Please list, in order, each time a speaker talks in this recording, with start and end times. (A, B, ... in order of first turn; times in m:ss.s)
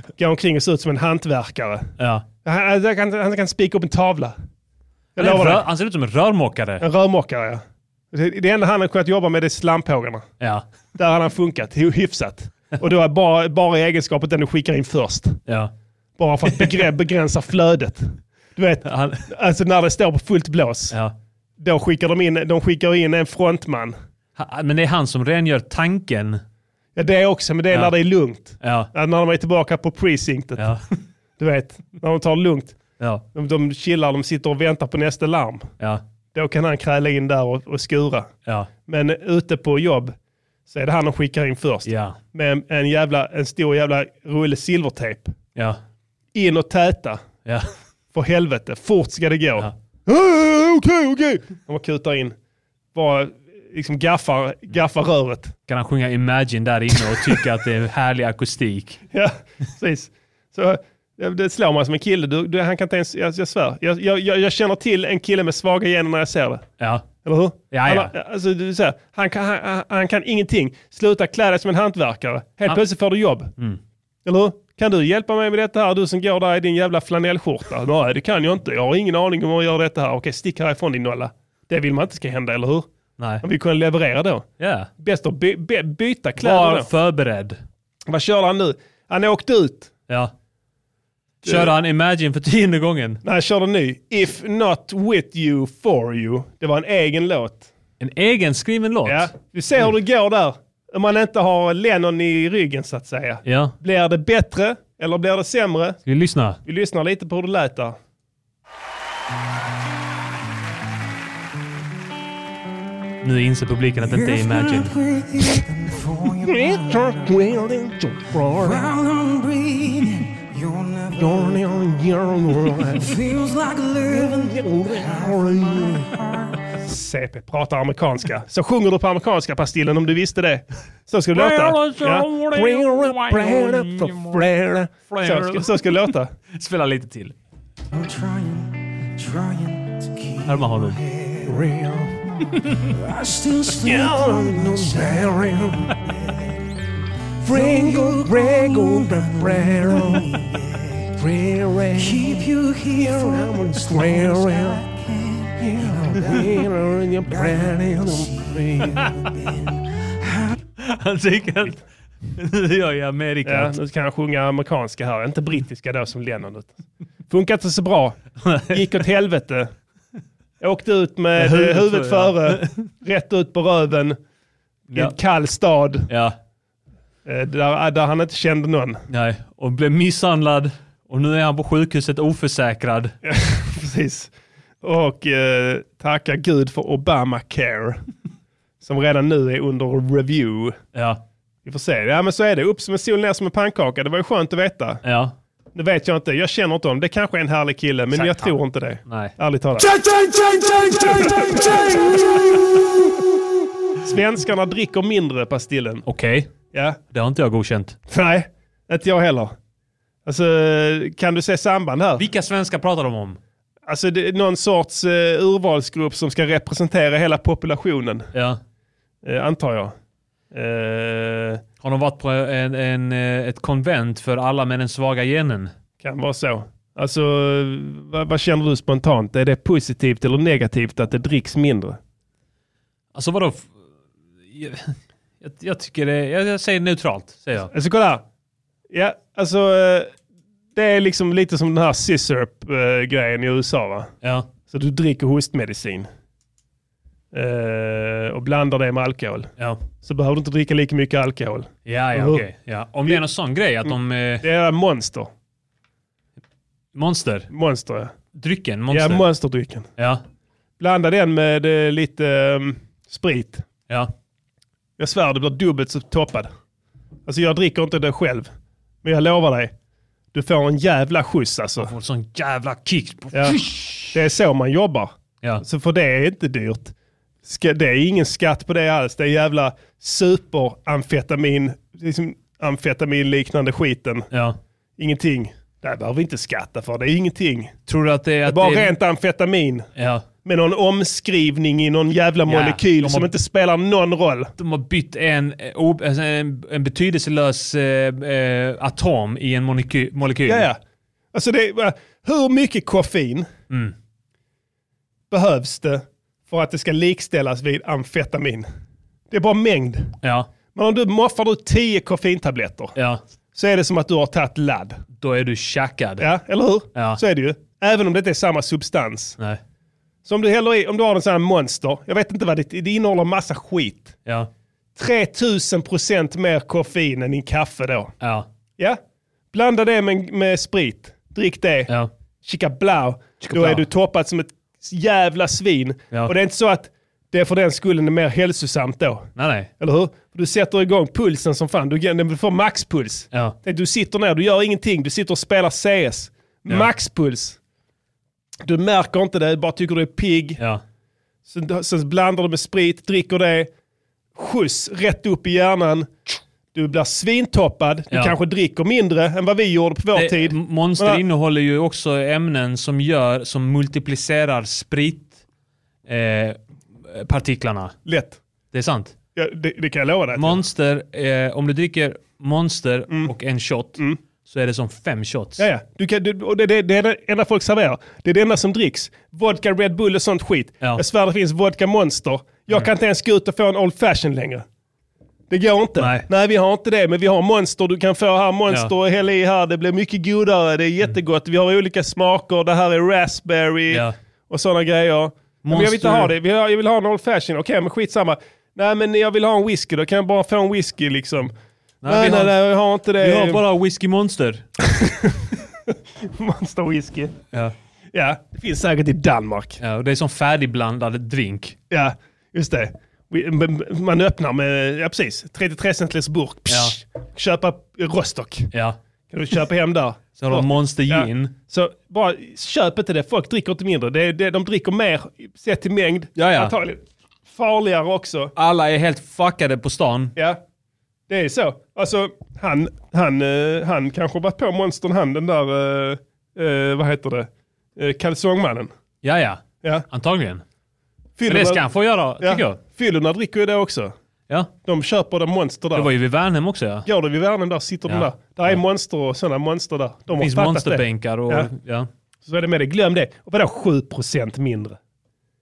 0:00.2-0:01.9 A
0:02.0-0:02.2 B
0:02.4-0:04.4 A
0:05.2-0:05.6 A
0:05.2-0:06.8 B
0:06.8-0:10.2 A
0:11.0-0:15.4 A
0:15.5-0:15.7 B
0:16.2-0:21.0 A
0:18.8-0:19.2 B
0:21.6-0:24.0 A
0:24.4-0:26.4 B
0:27.0-0:30.7 A
0:28.6-0:28.9 B
0:30.6-0:30.8 B
0:31.4-0:32.8 A
0:33.3-0:35.7 A
0:36.3-0:38.3 A
0:38.9-0:40.1 A
0:40.7-0:45.3 A
0:41.8-0:42.2 B
0:46.3-0:47.2 A
0:48.1-0:52.3 A
0:52.9-0:55.5 A
0:55.7-0:59.0 B
0:59.1-1:06.6 A
1:06.8-1:07.1 B
1:07.2-1:13.5 A
1:07.7-1:08.1 B
1:14.2-1:22.8 A
1:23.2-1:23.4 B
1:23.4-1:24.5 A
1:24.6-1:24.9 B
1:25.0-1:26.9 A
1:26.4-1:27.6 B
1:28.1-1:29.9 A
1:31.4-1:31.7 A
1:31.4-1:33.2 B
1:33.2-1:37.7 A
1:38.0-1:39.3 B
1:39.0-1:46.0 A
1:43.4-1:43.7 B
1:46.0-1:46.6 B
1:46.6-1:48.0 A
1:53.2-1:55.0 B
1:54.0-1:57.4 C
1:56.5-1:58.9 A
1:58.6-2:01.9 C
2:01.2-2:03.1 A
2:02.6-2:06.6 C
2:04.2-2:06.1 A
2:06.8-2:16.3 A
2:11.3-2:14.4 B
2:15.1-2:17.3 B
2:17.9-2:21.6 C
2:20.5-2:21.0 B
2:21.4-2:22.1 A
2:22.8-2:26.5 C
2:23.8-2:26.0 A
2:27.4-2:30.4 A
2:27.4-2:31.1 C
2:31.2-2:32.4 A
2:32.0-2:36.7 C
2:33.0-2:34.8 A
2:35.6-2:39.0 A
2:37.2-2:40.5 C
2:40.8-2:41.8 B
2:42.3-2:43.8 B
2:43.4-2:46.7 A
2:47.3-2:49.7 A
2:48.4-2:48.8 B
2:50.6-2:54.2 A
2:51.4-2:52.8 B
2:54.9-2:56.1 A
2:56.1-2:56.4 B
2:57.2-2:59.0 A
2:59.1-3:03.1 B
3:03.2-3:04.3 A
3:04.8-3:08.0 A
3:08.8-3:10.8 A
3:10.9-3:11.2 B
3:11.6-3:15.0 A
3:15.0-3:15.3 B
3:15.7-3:19.9 A
3:18.1-3:19.3 B
3:20.7-3:22.4 A
3:21.2-3:21.9 B
3:24.0-3:26.0 A
3:26.0-3:26.5 B
3:26.7-3:27.0 A
3:27.1-3:28.0 B
3:28.1-3:29.5 A
3:30.2-3:32.2 A
3:32.2-3:33.4 B
3:33.9-3:38.3 A
3:38.3-3:38.6 B
3:39.2-3:39.9 A
3:40.5-3:41.6 A
3:41.8-3:45.7 B
3:46.0-3:52.0 A
3:53.1-3:53.7 B
3:54.5-3:57.7 B
3:57.7-3:58.2 A
3:58.9-4:00.1 A
4:00.7-4:04.1 A
4:04.2-4:04.5 B
4:04.7-4:06.1 A
4:07.3-4:12.4 A
4:11.8-4:14.4 B
4:14.4-4:15.3 A
4:16.9-4:17.5 B
4:17.5-4:18.1 A
4:18.3-4:19.2 B
4:18.9-4:19.9 A
4:20.8-4:23.6 A
4:25.0-4:26.5 A
4:27.2-4:28.5 A
4:29.0-4:29.7 A
4:30.3-4:31.9 A
4:31.8-4:34.1 B
4:33.3-4:33.6 A
4:34.1-4:36.9 A
4:37.4-4:44.3 A
4:44.3-4:44.6 B
4:45.0-4:47.7 A
4:47.9-4:48.9 B
4:48.4-4:49.9 A
4:50.0-4:50.2 B
4:50.4-4:54.5 A
4:52.5-4:53.3 B
4:54.6-5:00.7 B
5:00.5-5:00.8 A
5:01.3-5:03.5 A
5:05.3-5:08.7 A
5:09.3-5:10.2 A
5:10.2-5:10.5 B
5:10.7-5:12.9 A
5:13.0-5:13.2 B
5:13.5-5:15.0 A
5:15.2-5:16.3 B
5:16.2-5:19.4 A
5:16.9-5:17.2 B
5:20.2-5:24.2 A
5:25.0-5:28.1 A
5:28.2-5:28.5 B
5:29.5-5:31.9 A
5:32.4-5:39.3 A
5:33.4-5:33.8 B
5:39.4-5:39.7 B
5:39.8-5:47.6 A
5:48.6-5:50.6 A
5:51.5-5:53.7 A
5:54.3-5:56.1 A
5:56.7-6:01.2 A
6:00.1-6:05.4 B
6:06.1-6:08.0 B
6:08.0-6:08.4 A
6:08.7-6:09.1 B
6:09.3-6:10.6 A
6:10.4-6:15.6 B
6:15.6-6:24.6 A
6:25.5-6:41.5 A
6:26.0-6:26.3 B
6:35.6-6:36.3 B
6:42.0-6:44.6 B
6:42.0-6:43.6 A
6:44.8-6:45.4 A
6:45.9-6:47.3 A
6:48.1-6:49.8 A
6:49.8-6:51.8 B
6:51.9-6:58.7 A
6:56.7-6:56.9 B
6:58.7-6:59.0 B
6:59.3-7:08.5 A
7:00.4-7:01.5 B
7:06.4-7:06.7 B
7:08.6-7:10.3 B
7:11.3-7:18.9 A
7:19.2-7:20.6 B
7:21.4-7:21.8 A
7:21.5-7:22.8 B
7:22.4-7:24.1 A
7:24.8-7:26.1 A
7:25.9-7:27.1 B
7:27.0-7:31.7 A
7:28.1-7:28.8 B
7:30.3-7:32.1 B
7:32.4-7:35.0 A